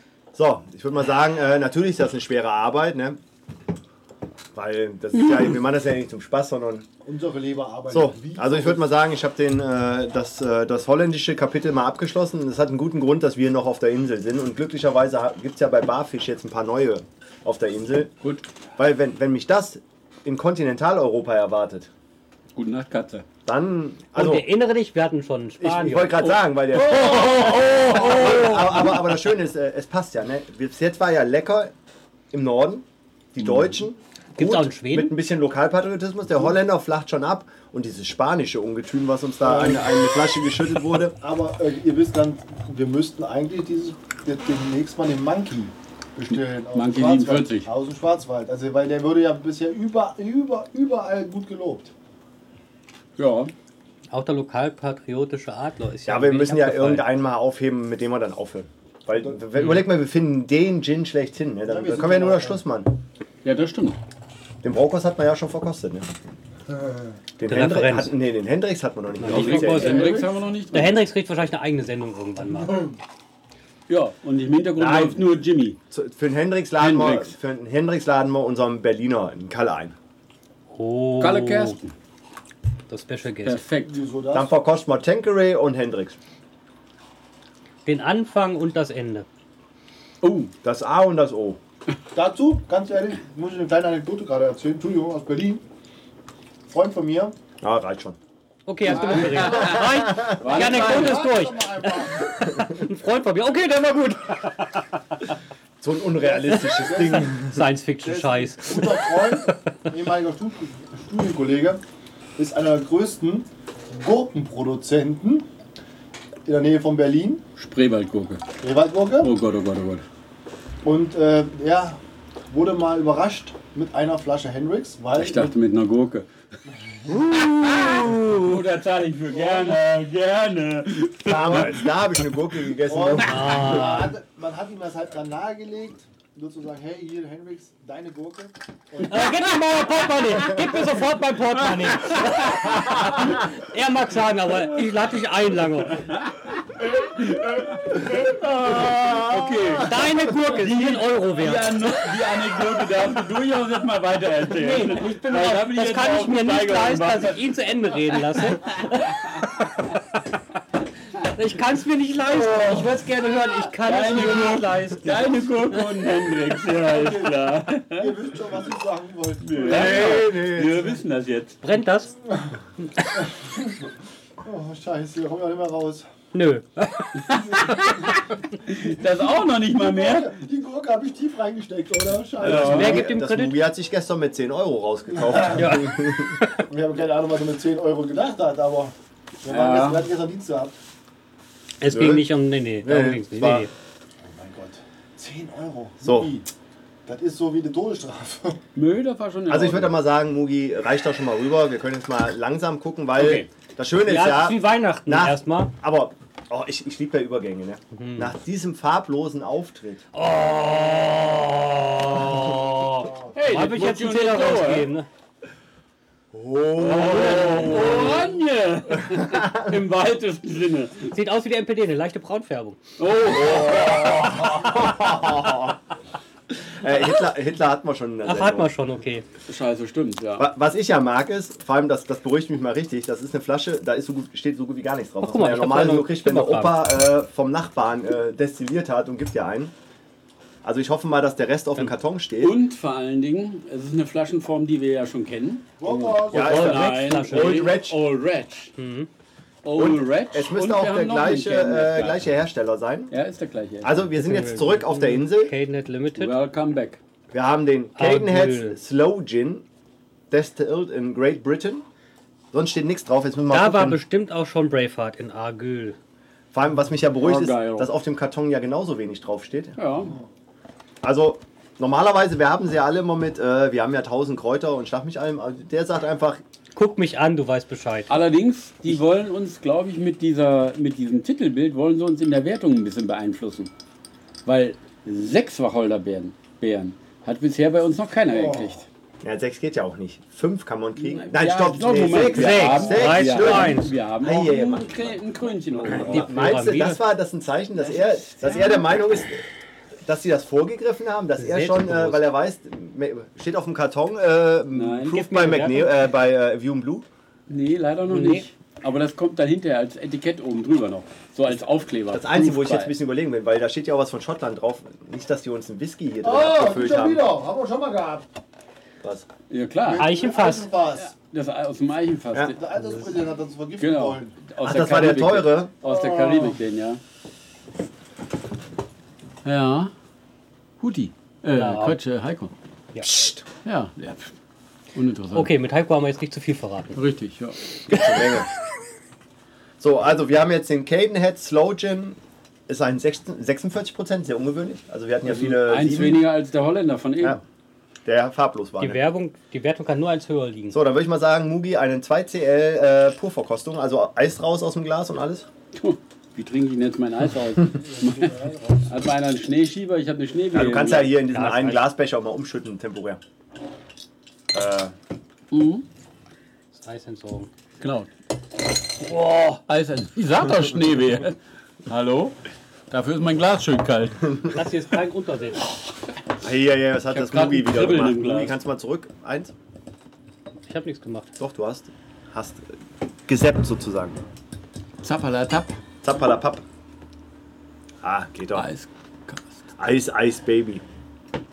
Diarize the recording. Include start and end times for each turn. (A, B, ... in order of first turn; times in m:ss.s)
0:00.3-0:03.2 A
0:04.5-0:06.9 A
0:07.0-0:08.8 B
0:07.9-0:18.1 A
0:18.8-0:21.9 A
0:22.6-0:23.2 C
0:23.5-0:24.5 A
0:24.1-0:26.2 D
0:25.6-0:31.7 A
0:26.2-0:28.7 C
0:32.3-0:41.2 A
0:34.4-0:35.1 D
0:39.4-0:39.8 B
0:41.2-0:51.9 B
0:46.3-0:47.7 C
0:53.2-0:53.5 C
0:54.1-0:57.1 D
0:56.1-1:02.9 A
1:01.7-1:02.6 B
1:03.4-1:04.0 C
1:04.6-1:06.1 A
1:06.7-1:07.1 B
1:07.4-1:10.2 A
1:07.4-1:08.1 D
1:09.2-1:12.9 D
1:09.3-1:11.0 C
1:09.8-1:10.2 B
1:13.9-1:15.8 C
1:14.8-1:15.2 A
1:15.9-1:20.0 A
1:16.8-1:17.4 C
1:20.7-1:21.8 D
1:21.2-1:21.9 C
1:22.9-1:23.6 D
1:23.4-1:24.0 C
1:23.9-1:24.5 B
1:24.3-1:26.2 A
1:27.8-1:29.3 D
1:30.2-1:30.5 C
1:30.6-1:31.6 A
1:32.1-1:35.6 B
1:36.7-1:37.4 B
1:37.6-1:38.2 A
1:38.7-1:45.2 D
1:38.8-1:39.8 B
1:38.9-1:41.3 C
1:40.4-1:42.3 B
1:45.8-1:47.6 A
1:46.2-1:47.4 B
1:47.2-1:49.6 D
1:48.0-1:51.8 B
1:52.4-1:55.5 B
1:56.5-1:57.4 B
1:57.6-1:58.4 C
1:58.6-1:59.3 B
1:59.2-2:00.0 C
2:00.8-2:02.0 B
2:02.5-2:05.5 B
2:05.2-2:06.3 C
2:07.3-2:08.2 D
2:07.4-2:11.9 C
2:09.3-2:09.8 B
2:11.3-2:14.0 A
2:12.9-2:19.6 B
2:13.2-2:14.1 D
2:19.0-2:26.1 D
2:21.6-2:23.3 C
2:26.0-2:29.9 C
2:28.3-2:29.0 D
2:29.8-2:31.7 D
2:30.6-2:37.4 C
2:34.5-2:40.0 D
2:38.1-2:39.4 C
2:41.2-2:45.9 D
2:43.8-2:48.1 C
2:46.8-2:47.4 B
2:47.9-2:50.3 B
2:49.4-2:51.6 C
2:49.7-2:50.9 A
2:51.6-2:52.2 D
2:52.3-2:52.6 B
2:53.2-2:53.7 B
2:54.4-2:56.1 B
2:56.3-2:57.8 D
2:57.2-3:00.3 C
2:59.7-3:03.0 B
3:02.4-3:06.4 A
3:02.4-3:03.0 C
3:02.5-3:03.6 D
3:05.2-3:05.8 B
3:05.6-3:06.5 D
3:06.7-3:10.8 B
3:09.5-3:10.0 C
3:11.8-3:13.7 D
3:11.9-3:12.3 A
3:12.8-3:13.7 A
3:14.2-3:16.5 B
3:16.0-3:16.3 A
3:17.1-3:18.6 B
3:18.8-3:20.0 C
3:19.5-3:30.0 A
3:24.0-3:25.7 D
3:27.9-3:28.3 D
3:30.1-3:35.1 D
3:33.3-3:34.9 C
3:36.3-3:38.1 A
3:36.8-3:41.1 C
3:37.4-3:38.0 D
3:39.2-3:39.7 A
3:41.1-3:42.8 D
3:43.0-3:44.2 C
3:43.3-3:45.8 A
3:46.5-3:48.7 A
3:48.2-3:49.3 D
3:49.5-3:50.5 C
3:50.4-3:59.7 A
3:55.2-3:56.8 D
4:00.6-4:02.6 A
4:02.4-4:08.8 C
4:05.8-4:06.6 B
4:05.9-4:08.0 A
4:06.3-4:07.7 D
4:08.8-4:09.1 D
4:09.6-4:12.3 C
4:09.8-4:13.2 A
4:13.1-4:14.0 C
4:13.8-4:15.5 A
4:14.2-4:16.4 D
4:16.2-4:17.0 C
4:17.3-4:19.6 A
4:18.0-4:18.8 D
4:20.3-4:21.8 A
4:22.5-4:24.0 A
4:23.5-4:26.0 D
4:26.5-4:29.8 A
4:27.2-4:27.9 C
4:29.8-4:30.2 C
4:31.0-4:36.4 A
4:36.8-4:38.1 D
4:38.1-4:43.7 C
4:44.4-4:48.9 C
4:48.3-4:48.8 B
4:49.2-4:55.2 A
4:51.0-4:56.6 C
4:52.3-4:53.9 D
4:55.8-4:59.5 A
4:56.0-4:57.0 D
4:57.8-4:58.8 C
5:00.0-5:07.1 A
5:01.4-5:02.2 D
5:04.7-5:05.4 C
5:05.1-5:05.9 D
5:07.5-5:12.9 C
5:08.1-5:08.4 D
5:12.1-5:17.2 A
5:16.2-5:18.2 B
5:19.0-5:19.3 A
5:19.5-5:20.1 C
5:19.8-5:21.1 B
5:20.0-5:20.7 D
5:21.0-5:22.6 C
5:22.5-5:24.4 B
5:23.8-5:27.0 C
5:24.6-5:25.7 A
5:25.8-5:26.6 B
5:29.4-5:29.9 C
5:30.8-5:32.5 C
5:31.6-5:32.0 D
5:33.0-5:33.4 A
5:33.6-5:34.3 C
5:34.9-5:35.5 C
5:35.3-5:37.0 D
5:36.9-5:37.6 C
5:37.9-5:38.5 A
5:39.8-5:46.2 A
5:45.2-5:47.4 C
5:48.0-5:49.0 A
5:48.8-5:50.8 D
5:50.7-5:55.5 A
5:55.8-6:01.2 C
5:57.7-5:59.0 B
6:00.5-6:03.2 A
6:01.3-6:01.8 D
6:04.5-6:05.0 A
6:05.5-6:05.8 C
6:06.7-6:07.5 D
6:07.8-6:08.1 C
6:09.0-6:09.6 D
6:09.6-6:12.4 C
6:12.9-6:14.4 C
6:14.5-6:15.6 D
6:16.4-6:19.5 A
6:17.1-6:18.6 C
6:20.6-6:21.3 D
6:21.4-6:22.8 A
6:23.3-6:24.2 A
6:25.0-6:25.8 C
6:26.0-6:26.6 A
6:28.0-6:28.7 A
6:28.6-6:29.7 C
6:29.8-6:30.8 A